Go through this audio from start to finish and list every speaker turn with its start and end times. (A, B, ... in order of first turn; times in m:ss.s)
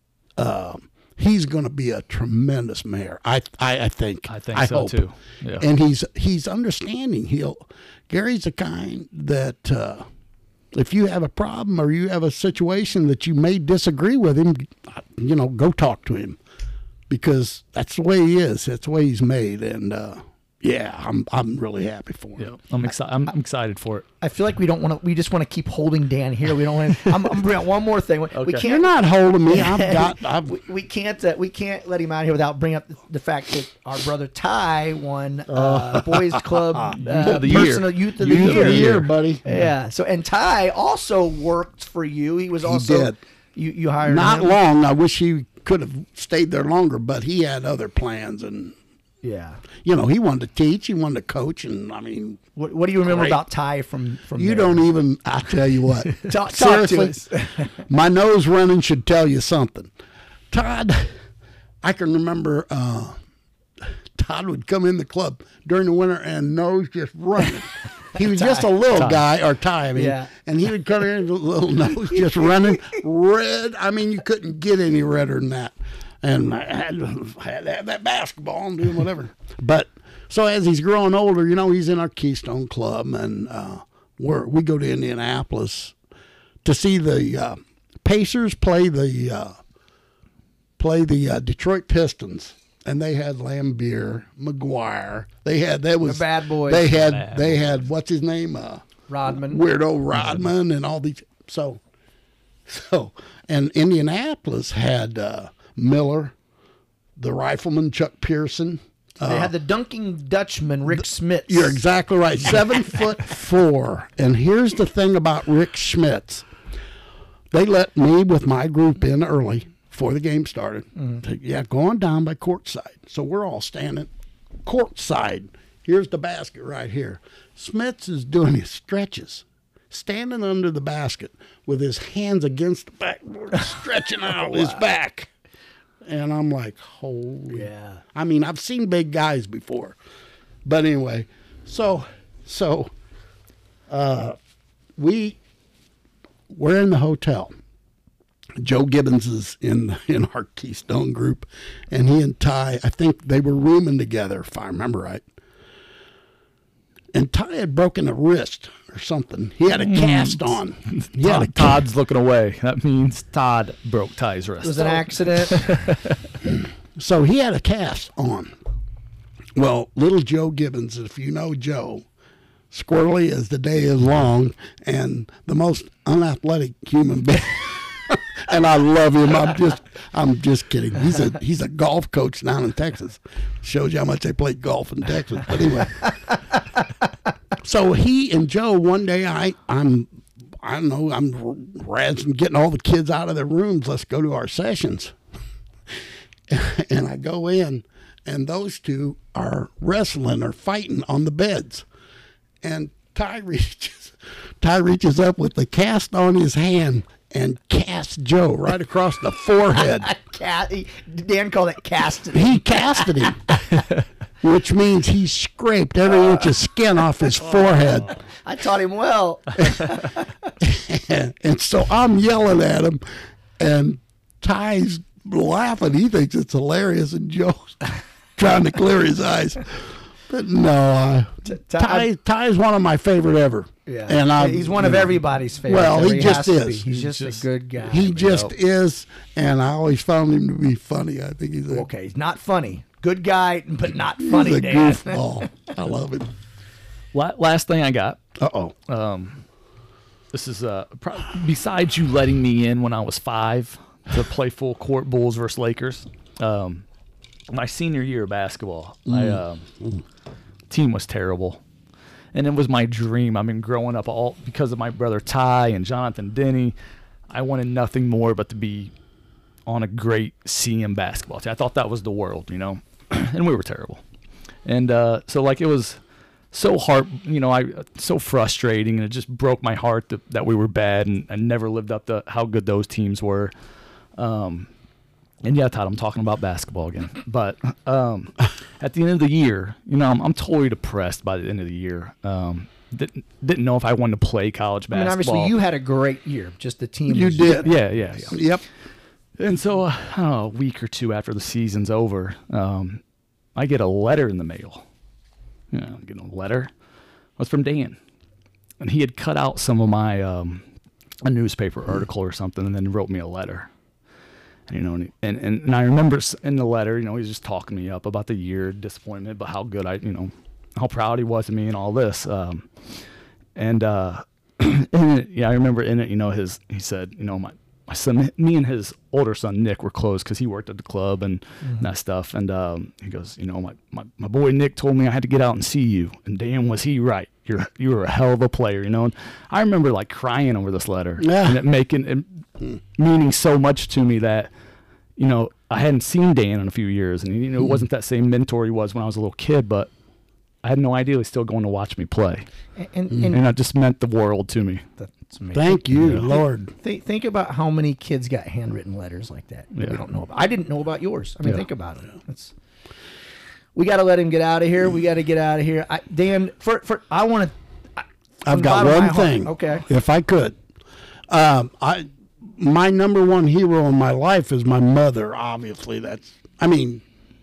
0:00.4-0:05.0 A
0:04.3-0:05.7 B
0:05.6-0:10.1 A
0:10.7-0:16.4 A
0:17.1-0:22.5 A
0:22.4-0:24.1 B
0:22.9-0:23.3 C
0:24.2-0:28.9 C
0:28.3-0:28.6 B
0:28.6-0:30.6 A
0:29.5-0:44.6 C
0:35.5-0:39.4 A
0:37.0-0:39.7 B
0:42.6-0:43.2 A
0:44.0-0:48.8 A
0:49.2-0:49.6 C
0:49.8-0:52.4 A
0:52.6-0:54.9 C
0:53.0-0:53.4 A
0:54.4-0:59.9 A
0:56.2-0:57.8 C
1:00.5-1:01.2 A
1:01.8-1:03.2 A
1:03.8-1:26.0 A
1:08.2-1:08.7 C
1:09.0-1:09.2 B
1:10.0-1:10.3 C
1:26.6-1:29.6 A
1:30.8-1:41.8 A
1:36.0-1:37.2 C
1:36.9-1:37.7 B
1:39.1-1:39.6 C
1:42.7-1:46.4 A
1:47.2-1:49.5 A
1:49.2-1:51.8 C
1:51.5-1:56.5 A
1:57.5-2:04.1 A
2:01.0-2:01.2 C
2:04.6-2:15.3 A
2:14.3-2:14.8 C
2:16.0-2:20.0 A
2:17.5-2:18.0 C
2:20.7-2:22.9 A
2:23.9-2:24.4 A
2:25.0-2:25.4 A
2:26.5-2:27.5 A
2:28.6-2:35.2 A
2:37.1-2:41.8 A
2:39.7-2:46.2 B
2:44.6-2:45.7 C
2:46.4-2:48.6 A
2:49.6-2:52.1 A
2:52.7-3:06.1 A
3:06.3-3:06.8 C
3:07.6-3:15.2 A
3:15.9-3:21.9 A
3:22.6-3:30.1 A
3:29.8-3:33.9 C
3:32.3-3:33.6 A
3:34.4-3:38.2 A
3:37.6-3:40.5 C
3:40.6-3:43.0 A
3:43.6-3:56.9 A
3:51.4-3:52.1 C
3:53.9-3:58.4 C
3:56.9-3:57.5 B
3:57.9-4:01.9 A
3:58.2-3:58.5 B
4:01.7-4:05.2 C
4:04.2-4:06.4 A
4:07.1-4:08.2 B
4:08.4-4:08.8 A
4:08.9-4:09.4 B
4:10.3-4:16.8 B
4:17.5-4:19.7 B
4:19.1-4:20.0 A
4:20.7-4:21.6 B
4:22.3-4:26.8 B
4:27.3-4:28.9 B
4:29.7-4:34.0 B
4:34.6-4:36.0 B
4:36.5-4:43.5 B
4:44.2-4:44.7 B
4:45.4-4:55.6 B
4:54.9-4:58.3 C
4:57.1-4:57.7 A
4:57.5-4:58.4 B
4:58.3-4:58.6 A
4:59.4-5:03.0 B
5:03.6-5:04.8 B
5:05.7-5:06.7 B
5:07.4-5:08.0 B
5:08.8-5:10.6 B
5:11.2-5:13.7 B
5:14.7-5:23.0 B
5:23.6-5:44.5 B
5:31.6-5:31.9 C
5:41.2-5:41.6 A
5:45.2-5:49.9 B
5:50.6-5:52.5 B
5:52.8-5:53.4 C
5:53.2-5:54.9 B
5:55.0-6:02.5 C
5:55.5-5:56.7 A
5:55.9-5:56.3 B
5:59.7-6:00.0 B
6:03.8-6:09.9 C
6:08.4-6:10.6 A
6:11.3-6:17.0 A